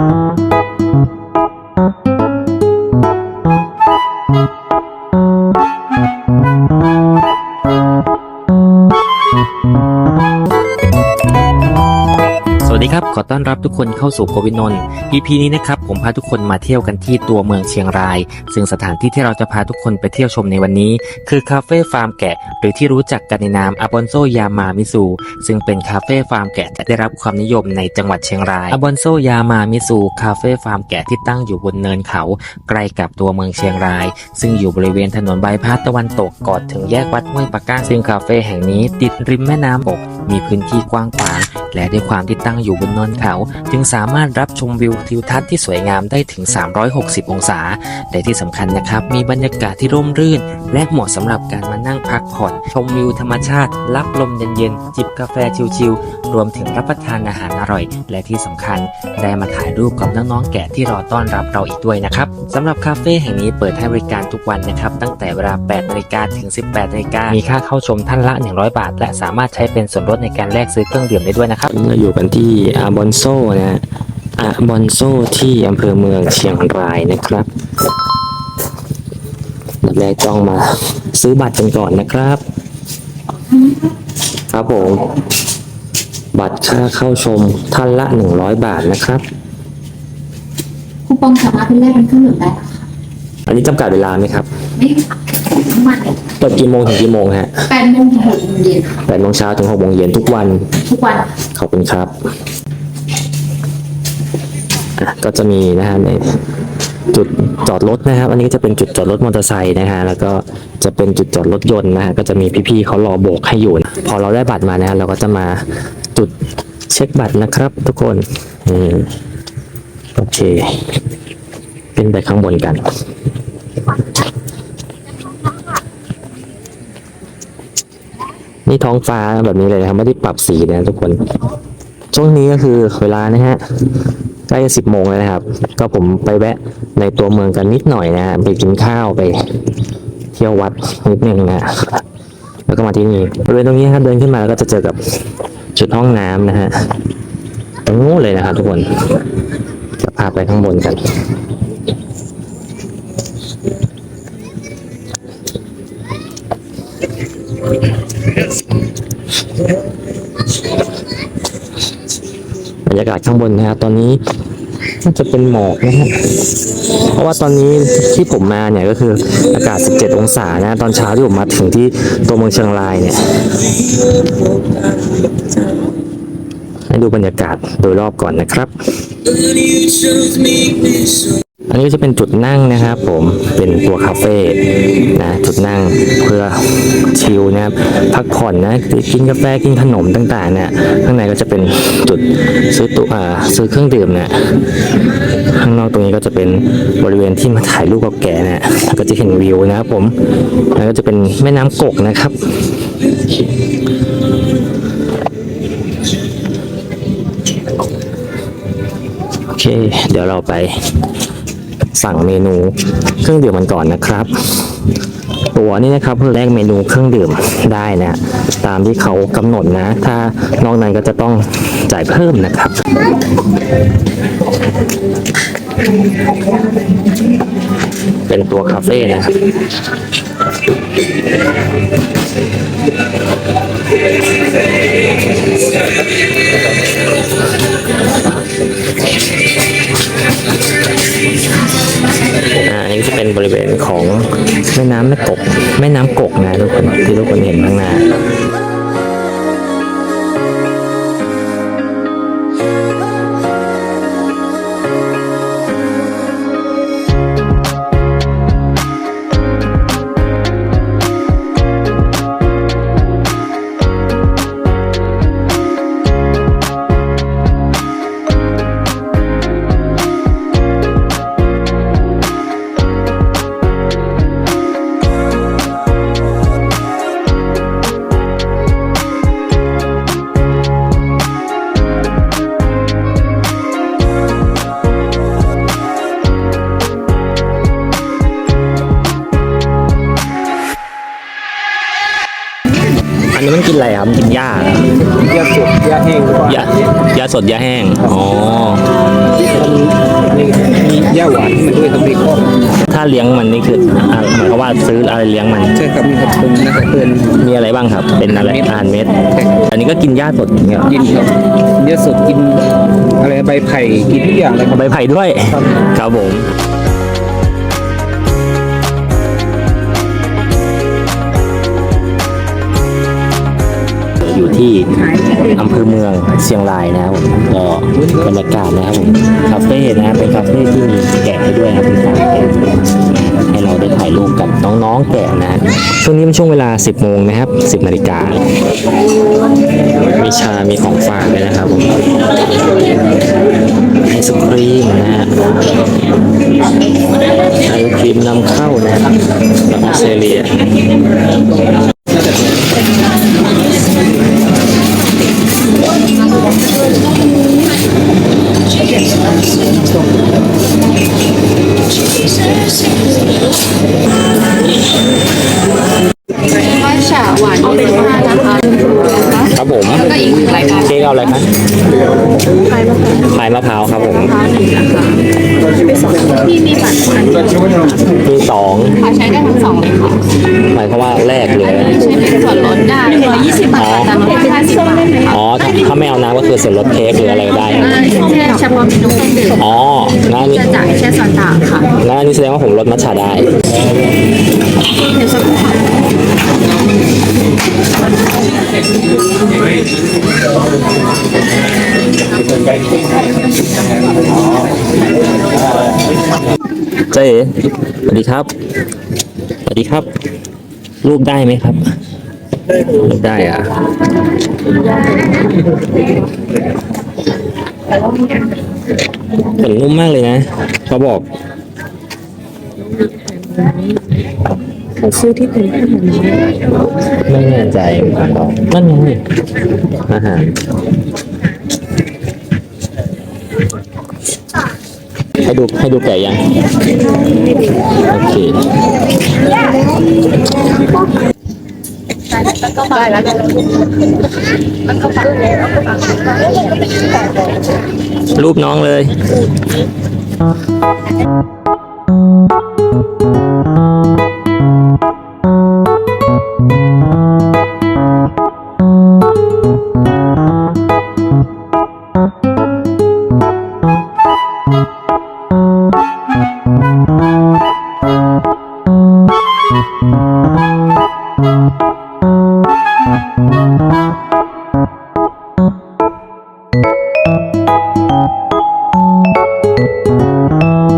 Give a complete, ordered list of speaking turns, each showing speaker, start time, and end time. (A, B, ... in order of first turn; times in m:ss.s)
0:12.6-1:13.8 A
1:14.4-1:17.5 A
1:19.8-1:22.4 A
1:24.5-1:25.1 A
1:26.3-1:29.2 A
1:31.1-1:32.8 B
1:33.5-1:34.5 A
1:35.5-1:36.2 B
1:36.3-1:37.5 A
1:37.7-1:39.0 B
1:39.0-1:40.8 A
1:40.9-1:41.3 B
1:41.5-1:42.1 A
1:45.0-1:46.2 A
1:47.1-1:56.3 A
1:56.9-1:59.1 A
2:00.2-2:01.0 A
2:02.0-2:02.8 A
2:08.7-2:11.2 A
2:12.1-2:13.6 A
2:14.5-2:19.4 A
2:20.3-2:22.0 A
2:22.7-2:25.2 A
2:25.7-2:26.7 A
2:27.8-2:29.1 A
2:30.0-2:31.0 A
2:42.8-2:44.2 A
2:45.0-2:46.3 A
2:46.9-2:53.6 A
2:56.9-2:58.7 A
2:59.2-3:00.6 A
3:01.7-3:14.4 A
3:15.4-3:20.2 A
3:20.7-3:22.6 A
3:29.5-3:30.8 A
3:32.0-3:34.7 A
3:35.5-3:42.8 A
3:48.3-3:49.4 A
4:02.5-4:08.1 A
4:53.3-4:54.9 A
4:55.1-4:56.7 C
4:56.5-4:58.9 A
4:59.4-5:02.5 C
5:02.9-5:05.8 A
5:05.8-5:07.4 C
5:07.4-5:11.1 A
5:08.4-5:09.7 C
5:10.9-5:12.6 C
5:13.2-5:14.8 C
5:14.7-5:16.5 A
5:24.2-5:38.4 A
5:40.2-5:42.0 A
5:44.0-5:45.5 A
5:47.6-5:50.6 A
6:06.5-6:10.9 B
6:09.4-6:11.5 A
6:12.7-6:13.2 B
6:13.2-6:14.5 A
6:14.3-6:18.0 B
6:18.1-6:19.0 A
6:19.0-6:20.2 B
6:20.6-6:22.2 A
6:21.8-6:25.3 B
6:23.7-6:24.2 A
6:25.2-6:28.0 A
6:27.8-6:29.6 B
6:29.6-6:30.8 A
6:30.7-6:31.9 B
6:31.9-6:33.5 A
6:35.2-6:35.6 B
6:47.0-6:48.5 A
6:49.6-6:50.1 A
6:51.0-6:51.8 A
6:52.9-6:53.8 A
6:59.4-7:01.3 A
7:03.0-7:04.1 B
7:05.0-7:06.5 B
7:07.0-7:09.2 A
7:09.9-7:10.7 A
7:15.4-7:16.5 A
7:18.0-7:18.7 A
7:22.7-7:23.4 B
7:28.3-7:29.2 A